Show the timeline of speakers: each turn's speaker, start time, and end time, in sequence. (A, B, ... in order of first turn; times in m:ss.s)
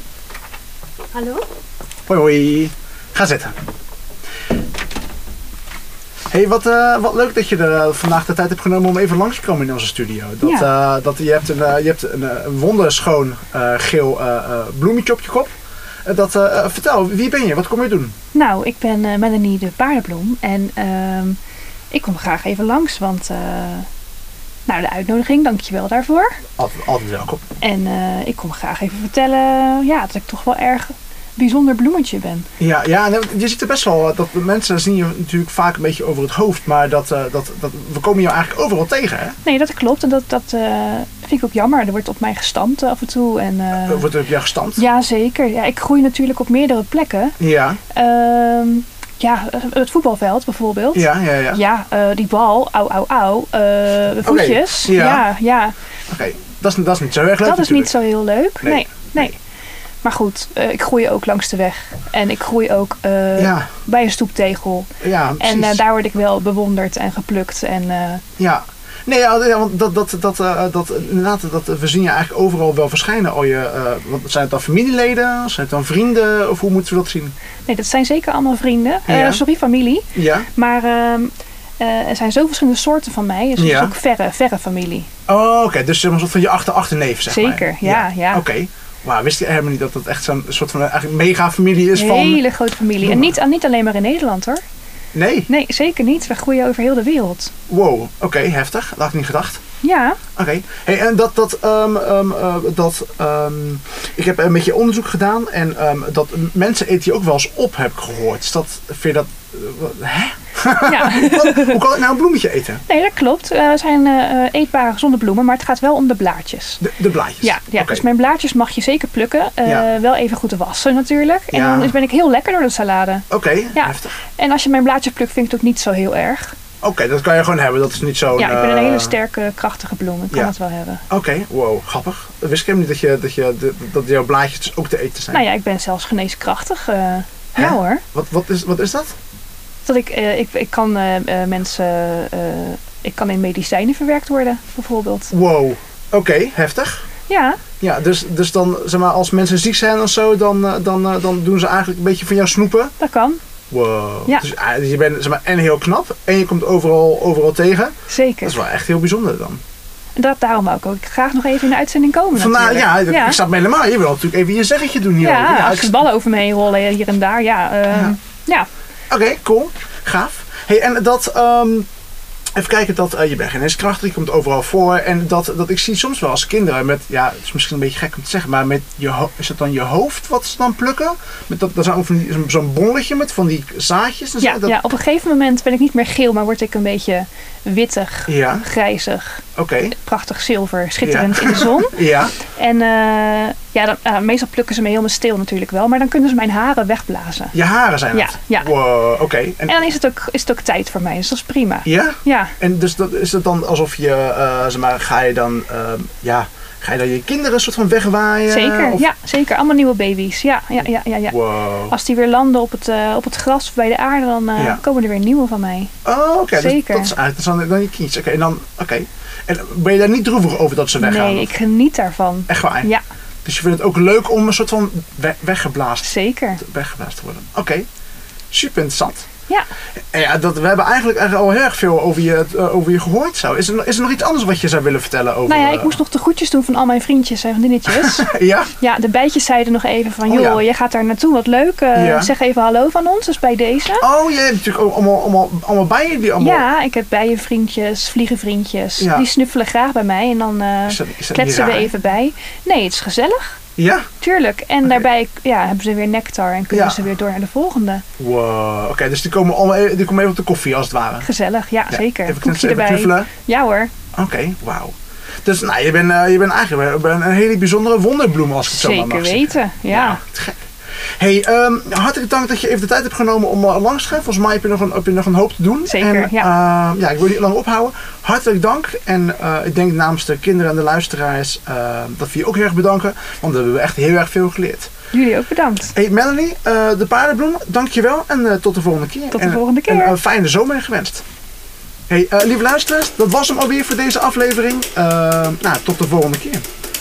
0:01.2-0:01.4 A
0:02.1-0:03.6 B
0:06.3-0:15.5 B
0:10.4-0:10.7 A
0:16.1-0:18.1 B
0:18.3-0:21.4 A
0:21.9-0:23.9 A
0:24.7-0:26.4 A
0:26.6-0:27.4 B
0:27.6-0:32.5 A
0:32.6-0:39.4 B
0:39.4-0:44.1 A
0:43.8-0:44.8 B
0:44.8-0:47.4 A
0:47.4-0:47.8 B
0:47.9-0:55.7 A
0:50.9-0:51.6 B
0:54.2-0:55.2 B
0:56.1-0:57.9 B
0:57.4-0:59.4 A
0:58.6-0:59.3 B
1:00.0-1:08.2 A
1:03.4-1:03.7 B
1:05.0-1:05.8 B
1:08.4-1:17.4 B
1:17.7-1:25.1 A
1:19.1-1:19.4 B
1:20.2-1:20.5 B
1:23.6-1:23.9 B
1:25.3-1:32.4 B
1:27.3-1:28.5 A
1:31.9-1:34.6 A
1:33.0-1:33.4 B
1:35.1-1:35.5 B
1:35.5-1:37.5 A
1:37.7-1:39.6 B
1:39.8-1:40.2 A
1:40.4-1:52.8 B
1:50.8-1:51.8 A
1:52.9-1:56.8 A
1:56.8-1:58.0 B
1:57.4-2:06.5 A
2:01.5-2:01.9 B
2:03.3-2:04.1 B
2:06.8-2:09.2 B
2:08.4-2:11.0 A
2:11.1-2:15.4 B
2:15.3-2:18.0 A
2:17.6-2:19.1 B
2:19.9-2:25.3 A
2:25.3-2:27.0 B
2:27.3-2:27.6 A
2:27.8-2:32.9 B
2:33.0-2:33.4 A
2:33.7-2:39.6 B
2:38.1-2:38.6 A
2:40.2-2:43.4 A
2:42.3-2:46.0 B
2:45.2-2:48.7 A
2:47.9-2:48.2 B
2:49.1-2:51.9 B
2:52.6-3:04.8 B
3:04.4-3:09.4 A
3:08.3-3:08.7 B
3:09.6-3:10.0 B
3:10.0-3:17.6 A
3:11.0-3:12.4 B
3:17.5-3:19.8 B
3:18.1-3:18.8 A
3:19.7-3:22.5 A
3:21.9-3:29.0 B
3:28.5-3:35.9 A
3:31.3-3:31.9 B
3:36.0-3:41.5 B
3:36.5-3:37.1 A
3:41.0-3:43.0 A
3:42.5-3:42.9 B
3:43.4-3:47.9 B
3:46.0-3:46.6 A
3:48.5-3:49.3 B
3:50.1-3:56.0 B
3:55.5-3:58.3 A
3:57.9-3:58.7 B
3:58.8-4:04.1 A
4:00.3-4:00.6 B
4:02.0-4:02.3 B
4:04.0-4:06.6 B
4:06.4-4:13.6 A
4:09.0-4:09.3 B
4:10.9-4:11.9 B
4:13.8-4:14.1 B
4:14.2-4:18.0 A
4:16.7-4:17.0 B
4:18.2-4:21.3 B
4:21.2-4:23.9 A
4:21.9-4:23.3 B
4:24.1-4:30.6 B
4:28.7-4:30.2 A
4:31.2-4:44.9 B
4:35.9-4:36.5 A
4:45.1-4:45.9 A
4:46.0-4:51.2 B
4:49.3-4:50.2 A
4:52.1-4:56.6 B